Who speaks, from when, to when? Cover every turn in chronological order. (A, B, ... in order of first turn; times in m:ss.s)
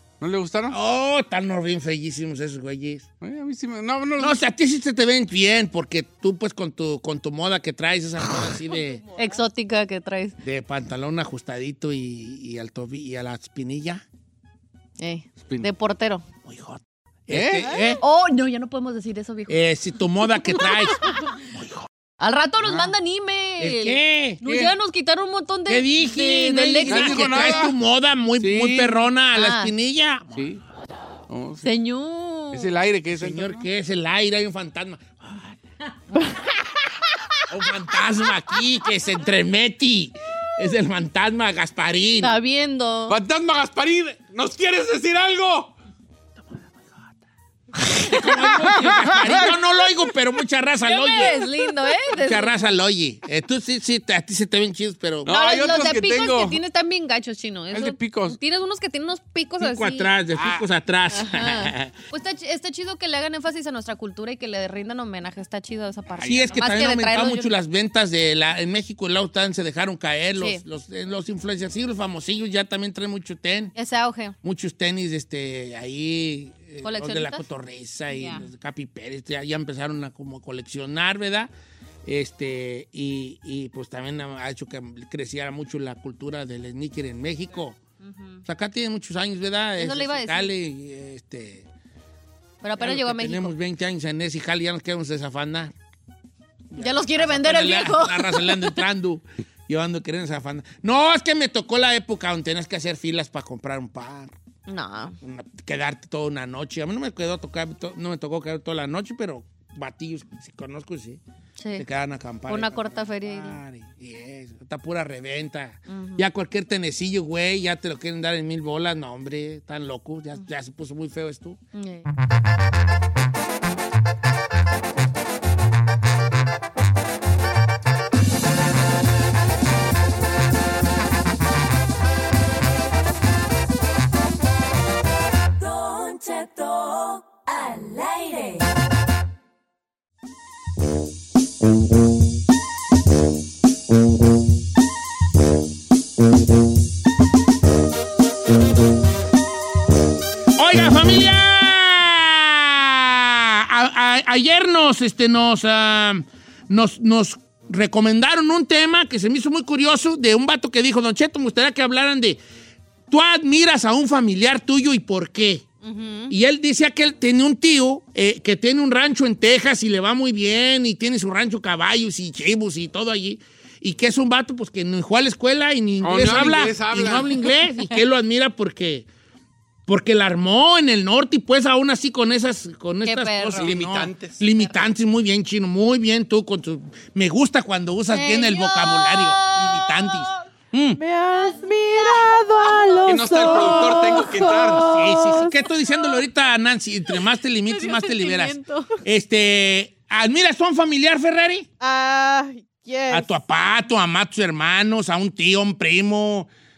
0:00.2-0:00.8 A
0:00.7-0:03.1 B
0:03.2-0:04.4 A
0:04.2-0:09.0 B
0:08.7-0:09.4 C
0:09.2-0:10.3 D
0:10.4-0:14.0 B
0:15.0-0:16.2 D
0:15.4-0:15.7 A
0:16.4-0:18.0 B
0:17.3-0:17.8 A
0:17.6-0:18.0 C
0:18.0-0:19.6 D
0:19.5-0:21.9 B
0:20.4-0:21.2 D
0:22.2-0:27.6 D
0:23.6-0:24.4 B
0:24.4-0:24.7 A
0:25.7-0:30.4 B
0:26.9-0:27.8 A
0:28.4-0:29.0 A
0:29.3-0:29.7 D
0:30.3-0:30.6 A
0:31.3-0:31.7 A
0:31.6-0:32.7 D
0:32.5-0:33.7 A
0:33.2-0:35.5 B
0:37.5-0:42.3 B
0:42.2-0:43.2 D
0:43.1-0:45.7 A
0:47.8-0:51.4 B
0:49.3-0:49.6 A
0:50.9-0:52.6 D
0:52.2-0:55.3 B
0:55.2-0:56.6 A
0:55.3-1:00.1 D
0:57.7-0:58.4 A
0:59.6-1:01.9 B
1:00.4-1:00.6 A
1:01.1-1:07.5 D
1:06.2-1:06.5 A
1:06.2-1:13.7 B
1:13.8-1:14.4 D
1:14.4-1:21.5 B
1:16.8-1:17.5 D
1:18.1-1:18.4 D
1:22.1-1:27.8 B
1:28.0-1:28.4 D
1:28.4-1:31.7 B
1:29.8-1:30.5 D
1:32.6-1:33.5 D
1:32.8-1:35.7 B
1:36.7-1:44.3 B
1:36.8-1:38.8 D
1:44.7-1:45.2 D
1:45.2-1:51.2 B
1:51.6-1:51.8 D
1:51.8-2:01.6 B
1:52.5-1:53.6 D
1:55.9-1:56.2 D
2:01.7-2:02.1 D
2:15.6-2:18.7 E
2:30.6-2:42.4 B
2:43.1-2:45.7 B
2:45.8-2:46.3 D
2:46.3-2:59.1 B
2:56.0-2:57.5 A
2:59.9-3:11.0 B
3:03.1-3:03.7 D
3:03.6-3:04.4 A
3:08.1-3:10.1 D
3:11.0-3:15.5 C
3:13.0-3:15.0 A
3:13.3-3:14.0 D
3:14.8-3:21.7 B
3:17.7-3:18.9 D
3:21.8-3:23.4 C
3:23.1-3:26.5 B